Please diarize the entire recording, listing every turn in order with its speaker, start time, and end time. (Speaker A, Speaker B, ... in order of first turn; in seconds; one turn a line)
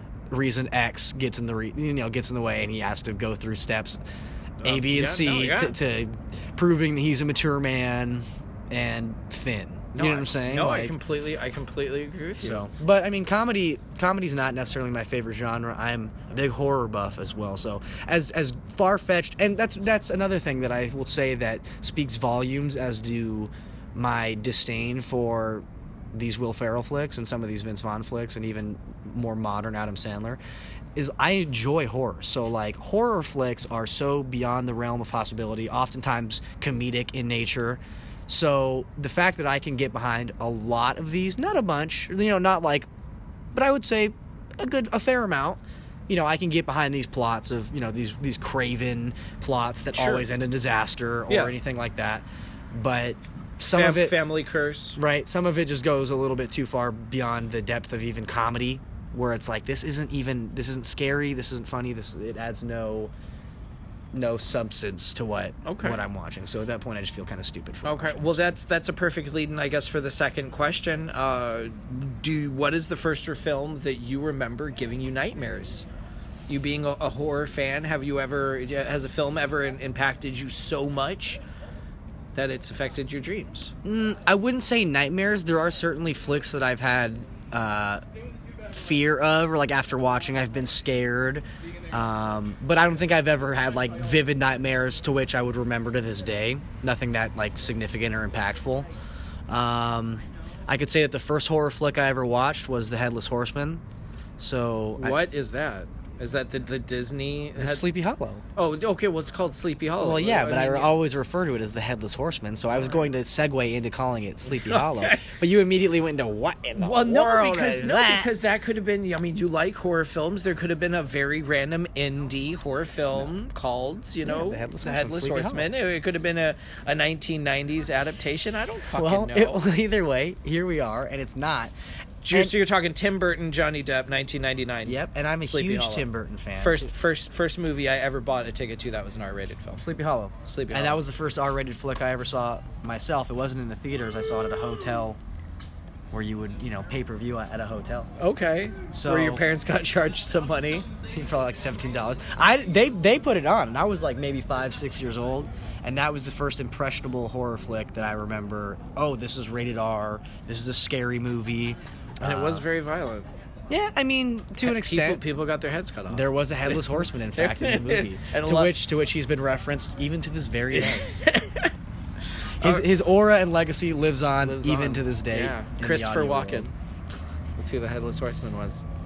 Speaker A: 0.3-4.0
Speaker B: 4.6-5.8
Speaker A: 4.6-11.0
Speaker B: 9.9-12.7
Speaker A: 12.4-30.4
Speaker A: 31.0-42.9
Speaker A: 43.5-54.2
Speaker B: 50.0-50.3
Speaker B: 51.3-51.6
Speaker B: 53.7-55.0
Speaker A: 55.0-63.1
Speaker A: 64.1-68.4
Speaker B: 65.7-66.0
Speaker B: 67.8-75.9
Speaker B: 76.5-81.4
Speaker B: 82.3-83.7
Speaker A: 83.8-88.0
Speaker A: 88.7-98.9
Speaker A: 99.5-103.8
Speaker A: 104.4-105.2
Speaker B: 105.0-107.9
Speaker A: 107.6-108.4
Speaker B: 108.6-111.0
Speaker A: 110.0-118.3
Speaker B: 114.5-115.3
Speaker B: 116.8-129.7
Speaker A: 124.2-125.7
Speaker A: 128.9-131.7
Speaker B: 132.2-139.8
Speaker A: 134.8-136.9
Speaker A: 139.8-145.2
Speaker B: 140.5-141.0
Speaker A: 146.1-148.1
Speaker B: 148.2-150.9
Speaker A: 148.9-149.4
Speaker A: 151.1-162.6
Speaker B: 162.2-163.3
Speaker A: 163.7-165.2
Speaker B: 164.6-168.8
Speaker A: 166.1-171.1
Speaker B: 170.7-171.7
Speaker A: 172.6-176.7
Speaker B: 172.6-172.9
Speaker B: 174.4-176.7
Speaker B: 177.6-178.8